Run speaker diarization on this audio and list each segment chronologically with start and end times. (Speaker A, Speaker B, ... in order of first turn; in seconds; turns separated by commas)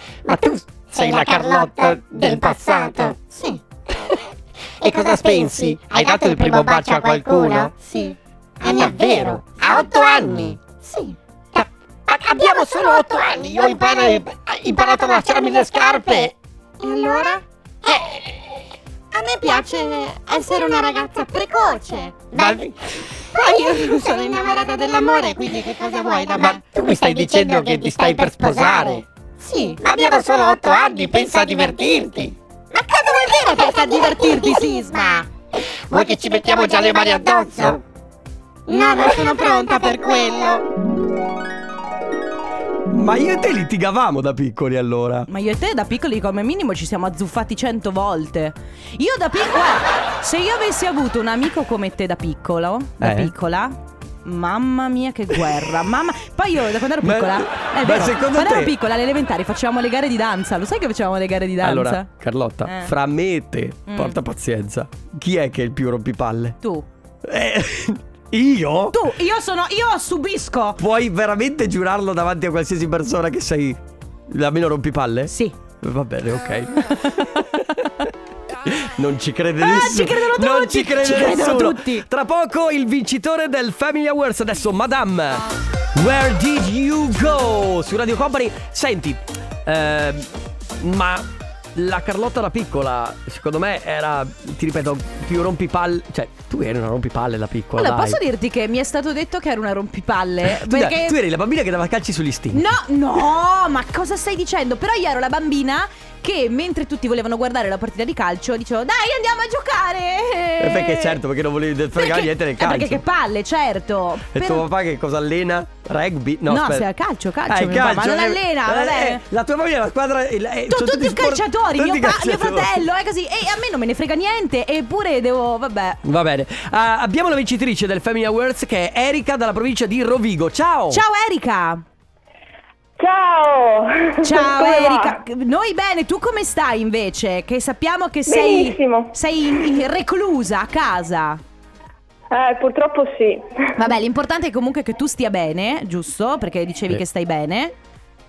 Speaker A: 0.2-3.1, Speaker B: 2.2-3.6, Speaker A: 4.8-7.7, Speaker B: 6.7-9.0, Speaker A: 8.6-10.6, Speaker B: 9.6-10.0, Speaker B: 10.8-11.1, Speaker A: 11.6-16.3, Speaker B: 16.8-17.4, Speaker B: 19.1-22.6, Speaker A: 22.3-22.8, Speaker B: 23.3-26.7, Speaker A: 25.5-25.8, Speaker A: 26.3-29.0, Speaker B: 28.2-30.3, Speaker A: 29.8-32.3, Speaker B: 32.9-33.4, Speaker C: 33.5-35.2, Speaker B: 34.4-34.9, Speaker A: 35.9-37.8, Speaker B: 38.7-40.6, Speaker A: 38.8-39.2, Speaker D: 42.9-45.3, Speaker C: 45.3-62.1, Speaker D: 53.0-53.3, Speaker D: 57.0-58.7, Speaker D: 61.6-66.6, Speaker C: 62.6-62.9, Speaker C: 63.9-64.2, Speaker D: 67.2-69.1, Speaker C: 68.9-70.8, Speaker D: 70.8-78.1, Speaker C: 75.3-75.5, Speaker D: 78.7-98.2, Speaker C: 79.6-82.0, Speaker C: 97.8-101.2, Speaker D: 100.4-102.7, Speaker C: 102.5-111.2, Speaker D: 110.6-113.0, Speaker C: 112.0-114.7, Speaker D: 114.3-116.9, Speaker C: 116.5-119.2, Speaker D: 117.5-122.8, Speaker C: 120.7-126.0, Speaker D: 126.0-131.0, Speaker C: 130.9-131.8, Speaker E: 133.0-135.2, Speaker C: 134.2-141.4, Speaker E: 138.3-139.1, Speaker E: 142.3-143.7, Speaker C: 143.8-147.7